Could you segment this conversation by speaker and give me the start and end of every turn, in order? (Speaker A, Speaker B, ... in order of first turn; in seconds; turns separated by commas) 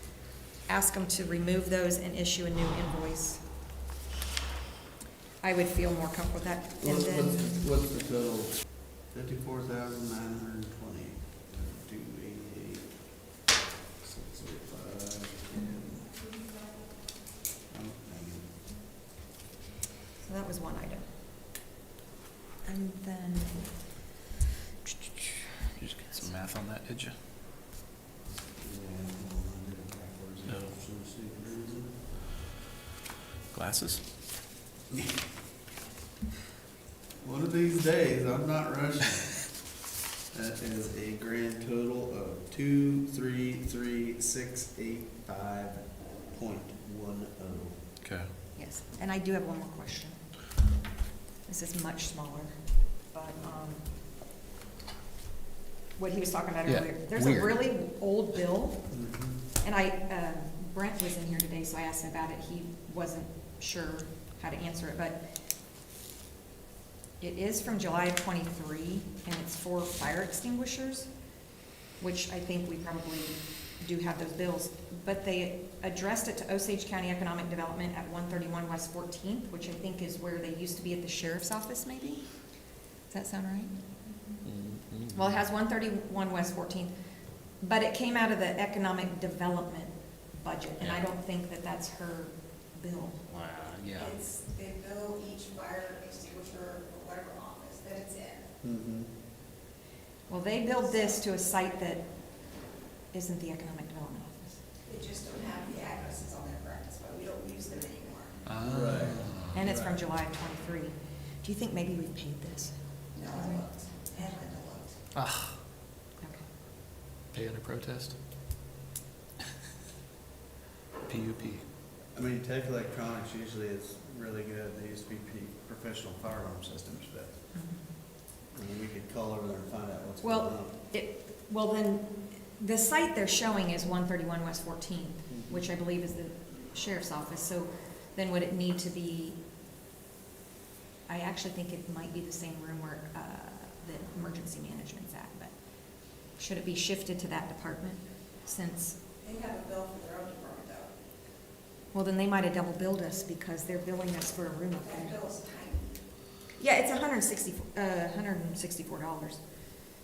Speaker A: 0.6-3.4, Speaker A: 5.4-7.6, Speaker B: 6.8-12.9, Speaker B: 14.0-16.1, Speaker B: 17.7-18.5, Speaker A: 20.2-21.1, Speaker A: 22.6-24.0, Speaker A: 24.9-25.4, Speaker C: 25.8-27.2, Speaker B: 28.6-32.1, Speaker C: 33.5-34.0, Speaker B: 37.2-39.7, Speaker B: 40.3-47.8, Speaker C: 48.0-48.3, Speaker A: 48.6-50.2, Speaker A: 51.5-53.9, Speaker A: 56.0-58.9, Speaker C: 56.7-57.6, Speaker B: 58.9-59.5, Speaker A: 59.6-65.2, Speaker A: 67.2-71.1, Speaker A: 72.0-82.3, Speaker A: 83.1-83.7, Speaker C: 84.4-85.3, Speaker A: 85.1-86.9, Speaker A: 87.6-93.2, Speaker C: 93.3-94.2, Speaker D: 94.0-98.5, Speaker B: 98.6-99.1, Speaker A: 100.3-102.0, Speaker D: 100.9-101.1, Speaker A: 103.1-104.6, Speaker D: 104.8-108.5, Speaker C: 108.5-109.6, Speaker B: 108.7-109.9, Speaker A: 109.5-114.4, Speaker D: 113.2-114.9, Speaker C: 115.1-115.6, Speaker A: 116.2-116.5, Speaker C: 117.3-118.2, Speaker C: 121.1-121.7, Speaker B: 122.1-127.5, Speaker A: 127.5-127.9, Speaker B: 128.5-130.7, Speaker A: 130.2-139.4, Speaker B: 135.3-135.6, Speaker A: 141.1-145.5, Speaker A: 146.4-149.1, Speaker D: 149.2-150.9, Speaker A: 151.9-155.2, Speaker D: 154.8-156.0, Speaker A: 156.6-159.4